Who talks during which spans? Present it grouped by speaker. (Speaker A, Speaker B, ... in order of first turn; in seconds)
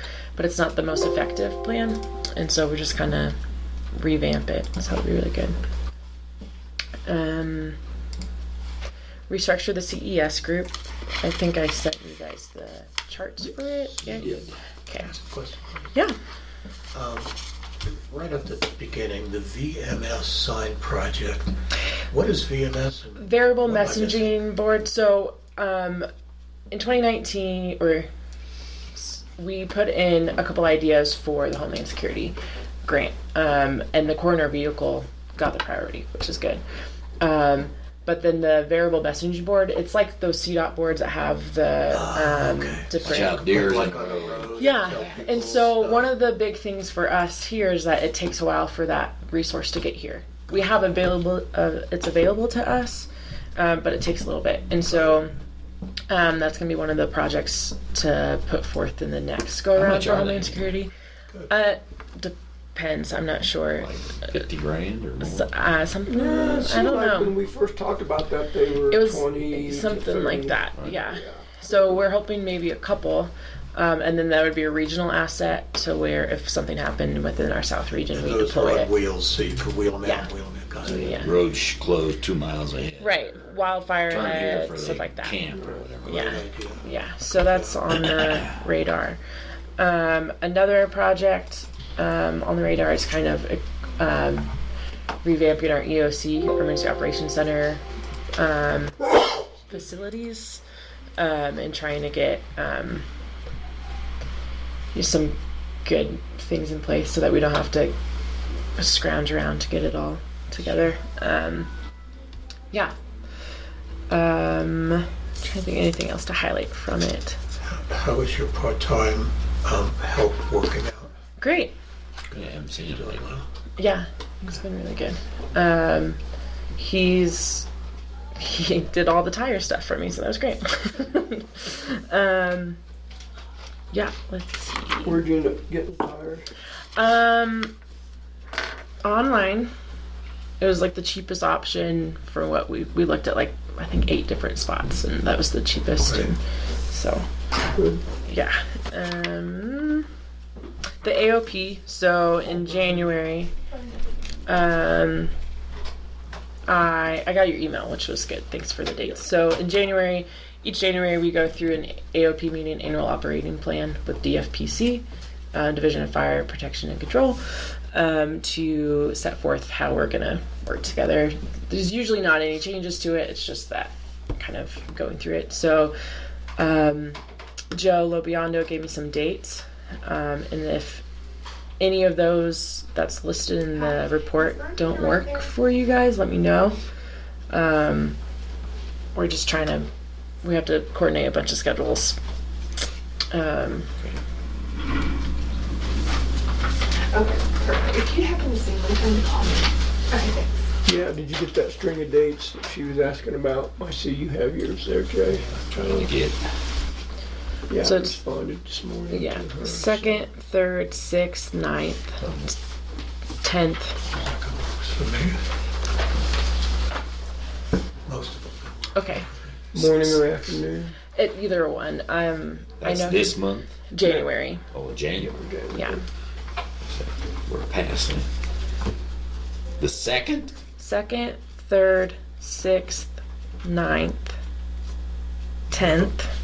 Speaker A: 0.4-3.4, 3.9-5.6, 7.1-7.8, 9.3-15.1, 23.2-26.1, 26.7-28.1, 28.9-36.6, 37.2-43.9, 44.5-55.4, 56.1-60.9, 61.5-64.4, 65.2-67.4, 68.9-78.9, 80.0-80.3, 80.8-81.4, 83.0-85.4, 86.0-89.2, 89.8-94.5, 95.2-97.8, 98.4-100.6, 101.2-103.1, 104.9-108.0, 108.8-111.7, 114.1-117.4, 121.4-121.7, 123.8-126.2, 126.8-127.7, 128.4-132.8, 133.9-135.2, 137.0-137.8, 139.0-139.7, 140.6-147.2, 148.2-150.1, 151.0-153.5, 154.5-155.3, 156.7-175.9, 176.6-177.2, 177.7-181.0, 181.8-186.8, 187.5-188.2, 189.2-189.9, 190.4-192.2, 193.3-193.9, 207.8-208.2, 209.1-212.5, 213.4-214.0, 218.9-220.2, 221.1-224.7, 225.7-226.0, 230.8-234.4, 235.7-236.3
Speaker B: 14.1-14.5, 43.0-44.7, 59.8-60.7, 63.8-65.5, 70.8-71.0, 81.2-83.3, 84.0-86.3, 88.0-88.5, 122.3-123.4, 205.7-206.4, 222.8-225.4, 226.9-228.3, 229.8-230.5
Speaker C: 14.9-15.9, 16.9-21.5, 22.1-24.4, 41.9-46.1, 54.9-55.2, 78.1-81.2, 86.1-86.9, 87.5-87.8, 110.7-110.9, 117.6-121.1, 122.3-123.5, 146.1-146.3, 205.3-205.9, 214.1-215.4, 218.1-219.0, 235.7-236.1
Speaker D: 66.1-72.0, 135.0-136.5, 147.8-148.0, 200.8-205.5, 207.7-210.3, 219.7-221.0, 225.2-226.1
Speaker E: 183.7-185.5, 197.1-200.5